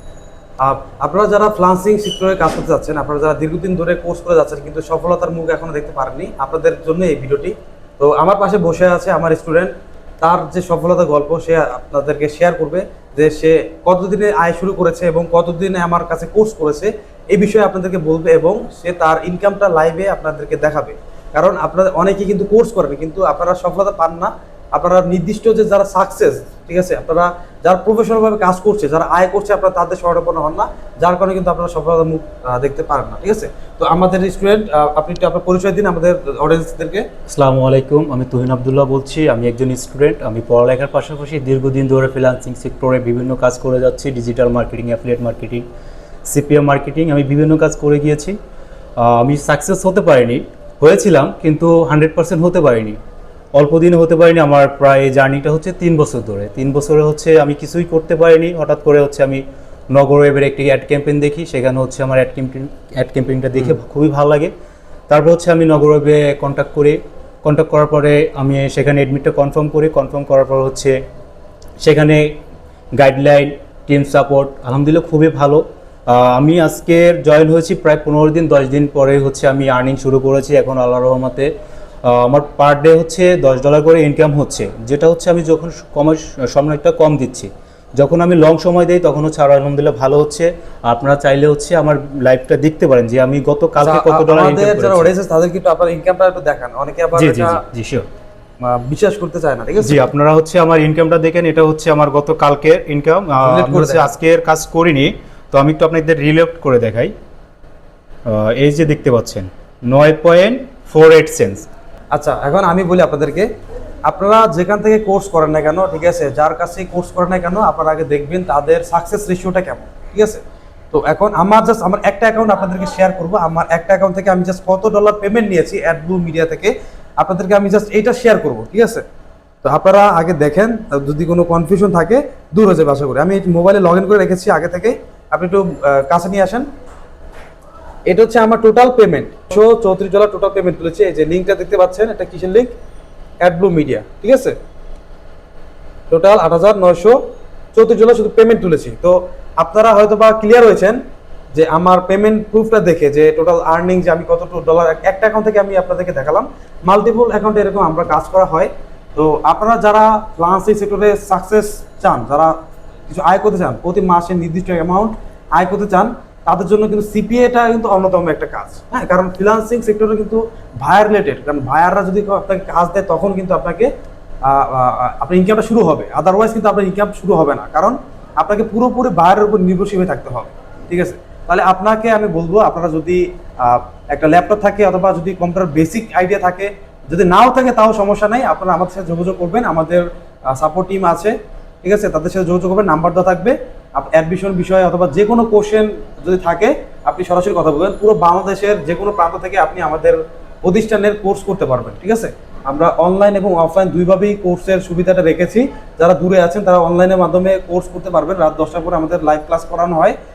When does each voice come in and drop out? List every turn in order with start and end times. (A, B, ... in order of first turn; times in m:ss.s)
0:00.6-0:37.1 A
0:37.3-0:45.6 B
0:46.3-0:48.4 B
0:49.0-0:53.0 B
0:53.6-1:04.5 B
1:05.1-1:11.0 B
1:11.8-1:12.2 B
1:13.0-1:21.5 B
1:22.0-1:35.1 B
1:33.8-1:37.6 A
1:37.2-1:38.1 B
1:38.6-1:40.0 A
1:39.8-1:47.1 B
1:43.4-1:44.1 A
1:48.3-1:51.7 B
1:52.1-1:53.5 A
1:54.1-2:00.4 A
2:00.9-2:09.0 A
2:09.6-2:16.7 A
2:18.1-2:22.7 A
2:23.4-2:24.6 A
2:26.1-2:27.2 A
2:27.7-2:31.0 A
2:31.5-2:42.6 A
2:43.1-2:53.9 A
2:54.4-3:30.2 A